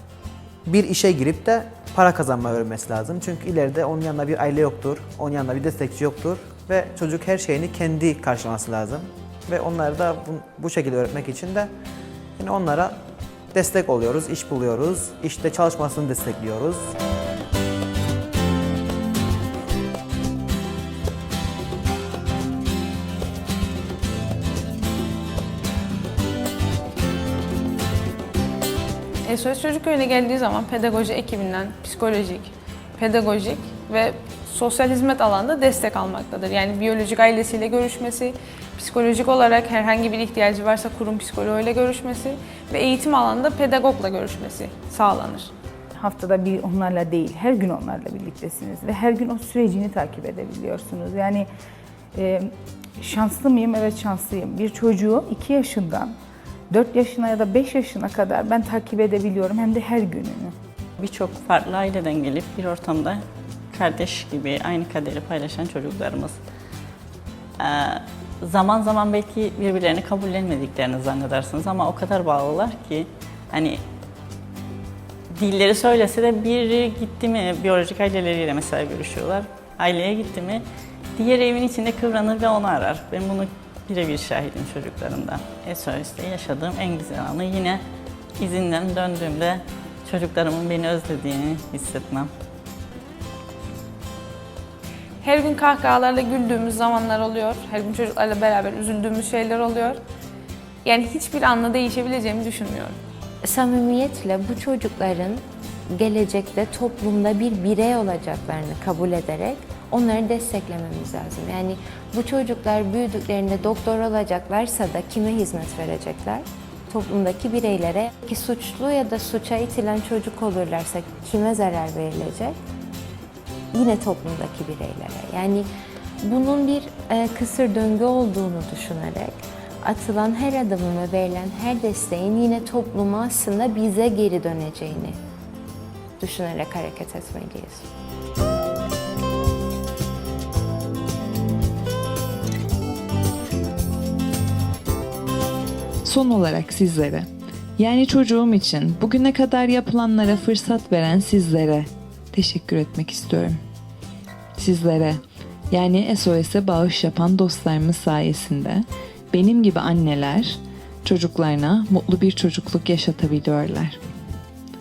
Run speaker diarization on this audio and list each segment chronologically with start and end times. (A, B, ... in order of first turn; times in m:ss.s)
0:00.6-0:11.7 A
0:12.4-0:13.0 A
0:13.5-0:16.9 A
0:29.3-0:45.5 B
0:46.0-0:51.5 C
0:52.2-0:56.1 C
0:56.7-1:00.5 C
1:01.0-1:03.2 D
1:03.7-1:06.4 D
1:07.6-1:13.8 D
1:15.4-1:20.6 D
1:21.2-1:27.8 D
1:28.4-1:32.3 D
1:35.2-1:40.0 B
1:40.8-1:43.0 B
1:43.4-2:02.6 E
2:03.7-2:05.7 E
2:06.2-2:15.2 E
2:16.2-2:17.9 E
2:26.0-2:27.3 F
2:27.8-2:33.6 F
2:34.6-2:35.2 F
2:35.7-2:44.0 F